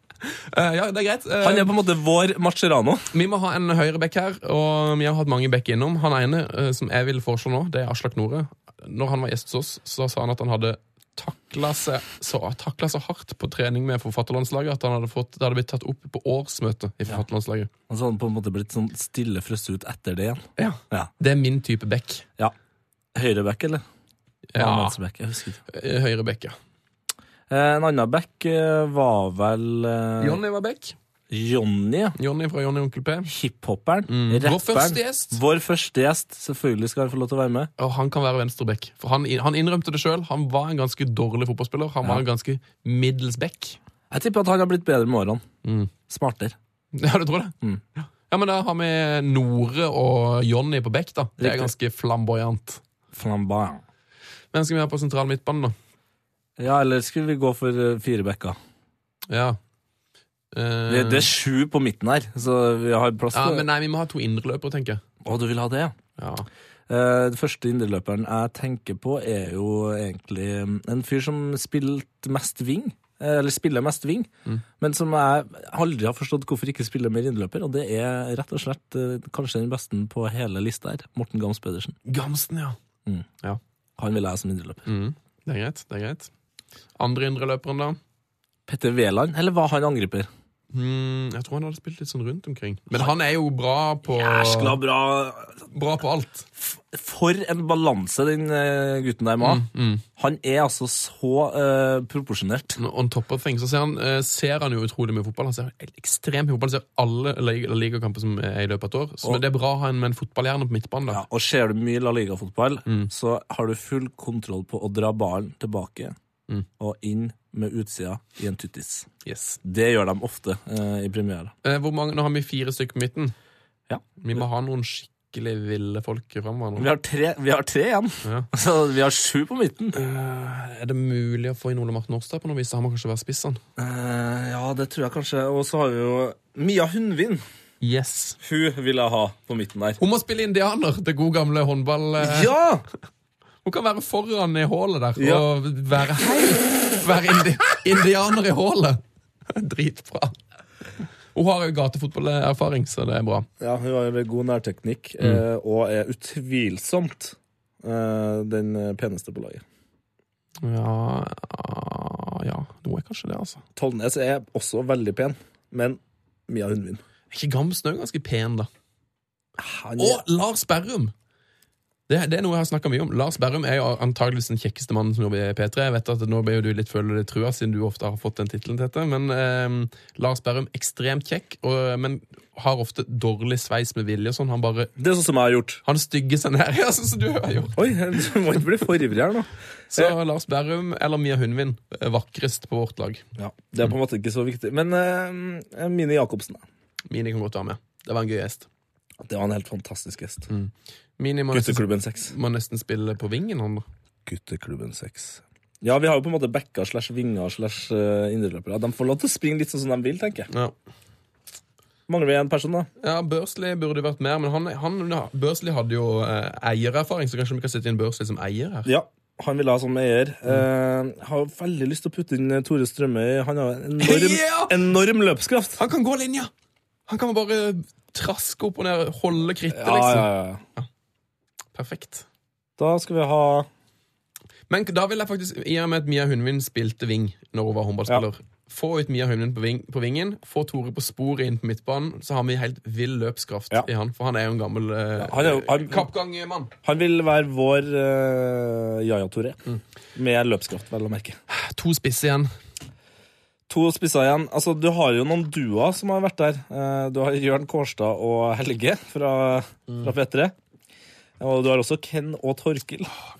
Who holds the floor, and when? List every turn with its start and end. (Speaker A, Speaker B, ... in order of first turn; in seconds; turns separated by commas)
Speaker A: 0.2-1.7, Speaker B: 1.4-3.1, Speaker A: 3.1-17.7, Speaker B: 17.9-21.1, Speaker A: 20.6-22.2, Speaker B: 23.1-23.8, Speaker A: 24.5-25.0, Speaker B: 24.6-25.6, Speaker A: 25.7-26.6, Speaker B: 27.5-30.4, Speaker A: 30.2-30.9, Speaker B: 31.3-32.2, Speaker A: 32.2-33.3, Speaker B: 33.2-37.7, Speaker A: 34.1-35.4, Speaker A: 37.8-43.8, Speaker B: 44.1-45.4, Speaker A: 45.6-45.9, Speaker B: 46.1-46.5, Speaker A: 46.9-52.8, Speaker B: 51.4-51.7, Speaker B: 53.1-53.8, Speaker A: 54.5-55.7, Speaker B: 56.6-58.6, Speaker A: 59.3-59.6, Speaker A: 60.5-61.3, Speaker B: 60.9-63.7, Speaker A: 63.3-65.0, Speaker B: 65.2-65.9, Speaker A: 66.2-66.5, Speaker B: 66.9-82.0, Speaker A: 82.0-82.8, Speaker B: 84.0-84.9, Speaker A: 84.8-86.3, Speaker A: 87.0-88.0, Speaker B: 88.7-90.3, Speaker A: 90.7-94.8, Speaker B: 94.1-95.6, Speaker A: 95.7-96.5, Speaker B: 96.6-99.6, Speaker A: 99.4-100.0, Speaker B: 100.2-102.8, Speaker A: 102.8-111.2, Speaker B: 111.1-116.2, Speaker A: 112.8-113.1, Speaker B: 116.8-119.1, Speaker A: 119.2-119.6, Speaker B: 119.6-121.5, Speaker A: 121.6-123.3, Speaker A: 124.2-126.9, Speaker B: 126.8-130.0, Speaker A: 128.2-128.5, Speaker A: 129.9-133.6, Speaker B: 133.8-137.4, Speaker A: 137.8-138.4, Speaker B: 138.4-140.0, Speaker A: 140.0-142.5, Speaker B: 142.2-142.8, Speaker A: 143.6-150.4, Speaker B: 145.2-145.4, Speaker A: 151.3-153.5, Speaker B: 153.6-159.6, Speaker A: 160.6-163.6, Speaker B: 163.8-167.0, Speaker A: 167.3-168.7, Speaker B: 169.6-170.2, Speaker A: 170.0-171.1, Speaker A: 172.1-184.9, Speaker B: 185.0-185.8, Speaker A: 185.8-188.2, Speaker B: 187.8-190.1, Speaker A: 189.9-193.2, Speaker B: 193.4-196.6, Speaker A: 197.1-198.7, Speaker B: 199.2-200.5, Speaker A: 200.5-203.8, Speaker B: 201.5-202.3, Speaker B: 204.2-210.5, Speaker A: 210.5-210.8, Speaker B: 212.1-212.9, Speaker A: 213.0-218.9, Speaker B: 218.8-225.8, Speaker A: 224.0-224.8, Speaker A: 225.8-226.5, Speaker A: 227.1-230.9, Speaker B: 229.7-230.6, Speaker A: 231.7-232.2, Speaker B: 232.8-233.7, Speaker A: 234.7-246.7, Speaker B: 245.2-246.1, Speaker B: 246.8-249.6, Speaker B: 250.1-251.4, Speaker A: 251.5-252.5, Speaker B: 253.7-260.5, Speaker B: 261.4-263.1